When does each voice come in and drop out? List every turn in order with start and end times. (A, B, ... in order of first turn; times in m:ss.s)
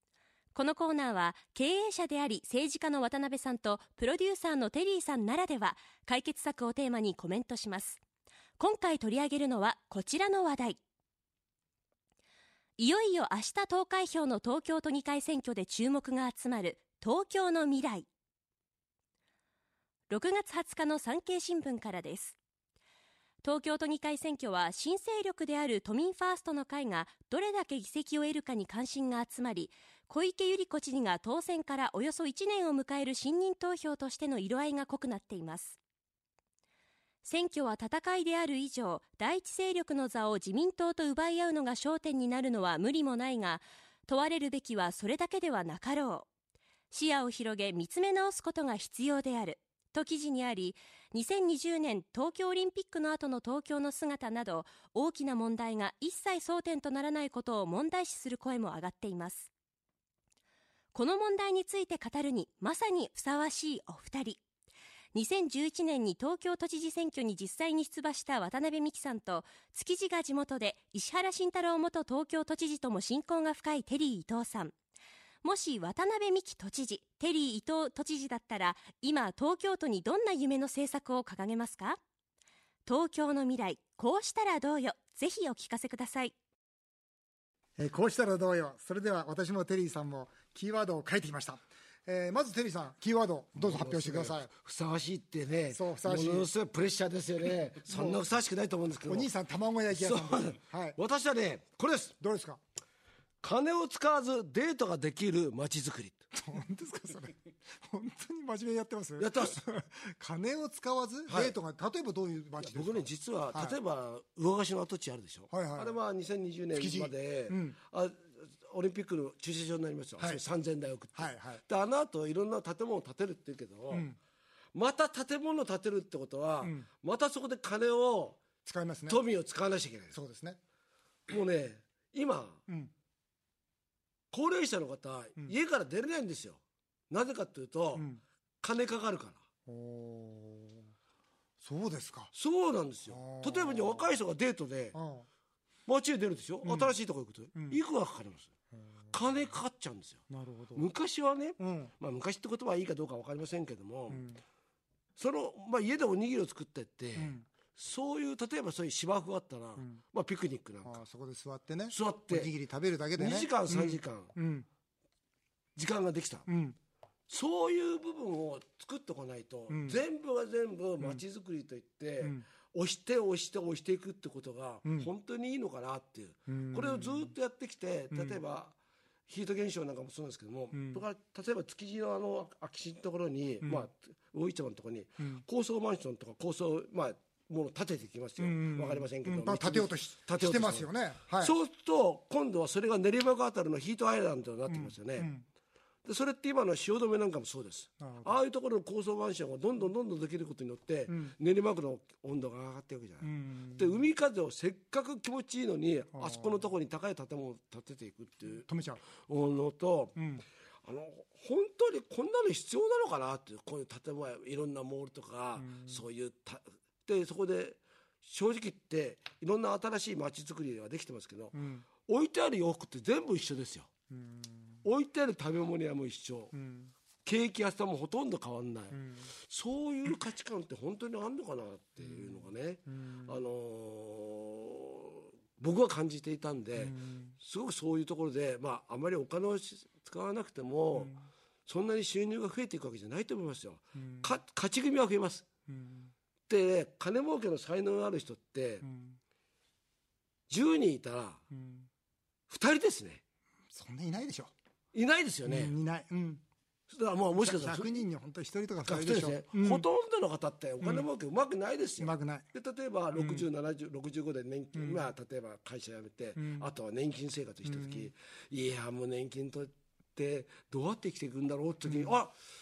0:00.5-0:08.0 A
0:08.6-0:10.8 A
0:12.8-0:18.1 A
0:20.1-0:22.4 A
0:23.4-0:35.8 A
0:37.2-0:46.3 A
0:46.9-0:59.5 A
1:00.9-1:04.4 A
1:05.1-1:14.7 A
1:15.4-1:22.0 A
1:22.8-1:26.3 A
1:27.8-1:34.5 B
1:33.6-1:39.3 C
1:35.7-1:36.5 B
1:37.9-1:38.2 B
1:39.1-1:41.0 B
1:39.9-1:42.2 C
1:42.2-1:42.6 B
1:43.4-1:46.2 C
1:46.3-1:53.8 B
1:49.2-1:49.6 C
1:51.3-1:51.6 C
1:52.6-2:04.1 C
1:55.5-1:56.0 B
1:56.7-1:57.8 B
2:01.1-2:01.6 B
2:03.9-2:04.2 B
2:04.7-2:08.4 C
2:06.6-2:06.9 B
2:08.6-2:09.2 B
2:09.1-2:10.1 C
2:10.1-2:10.6 B
2:11.3-2:12.6 C
2:14.3-2:18.1 C
2:17.9-2:18.2 B
2:18.6-2:19.4 C
2:19.6-2:20.9 B
2:21.6-2:22.3 B
2:22.3-2:25.0 C
2:23.0-2:24.1 B
2:24.9-2:25.2 B
2:25.9-2:28.5 C
2:26.6-2:26.9 B
2:27.5-2:27.8 B
2:28.7-2:29.2 B
2:29.1-2:30.2 C
2:30.3-2:30.9 B
2:30.7-2:34.2 C
2:31.6-2:31.9 B
2:34.1-2:34.4 B
2:35.2-2:41.0 C
2:37.2-2:37.5 B
2:39.8-2:40.0 B
2:40.8-2:44.7 B
2:41.9-2:42.5 C
2:43.2-2:44.3 C
2:45.8-2:46.5 C
2:46.5-2:46.8 B
2:47.3-2:58.7 C
2:49.7-2:50.0 B
2:54.8-2:55.1 B
2:56.5-2:57.3 B
2:58.1-2:58.4 B
2:59.3-3:15.3 C
3:00.7-3:01.0 B
3:03.6-3:03.9 B
3:05.2-3:05.4 B
3:08.4-3:11.5 B
3:14.7-3:15.4 B
3:16.0-3:30.2 C
3:18.0-3:18.4 B
3:21.1-3:21.3 B
3:23.2-3:24.0 B
3:26.1-3:26.7 B
3:28.6-3:29.0 B
3:30.2-3:30.4 B
3:30.8-3:43.9 C
3:35.6-3:36.0 B
3:41.5-3:41.8 B
3:44.1-3:44.8 B
3:44.8-3:46.5 C
3:46.5-3:46.9 B
3:47.2-4:01.2 C
3:48.9-3:49.3 B
3:52.0-3:53.4 B
3:56.8-3:57.4 B
4:00.9-4:01.2 B
4:01.7-4:05.4 C
4:04.0-4:04.4 B
4:05.7-4:06.1 B
4:06.5-4:08.8 C
4:08.8-4:09.2 B
4:10.5-4:11.4 C
4:11.5-4:11.9 B
4:12.5-4:13.2 C
4:13.7-4:14.5 B
4:14.9-4:15.7 C
4:15.4-4:16.4 B
4:16.9-4:18.1 C
4:17.3-4:19.8 B
4:18.8-4:32.3 C
4:20.8-4:21.1 B
4:22.0-4:22.5 B
4:23.1-4:23.4 B
4:24.7-4:25.1 B
4:26.4-4:26.7 B
4:27.6-4:28.1 B
4:31.8-4:32.2 B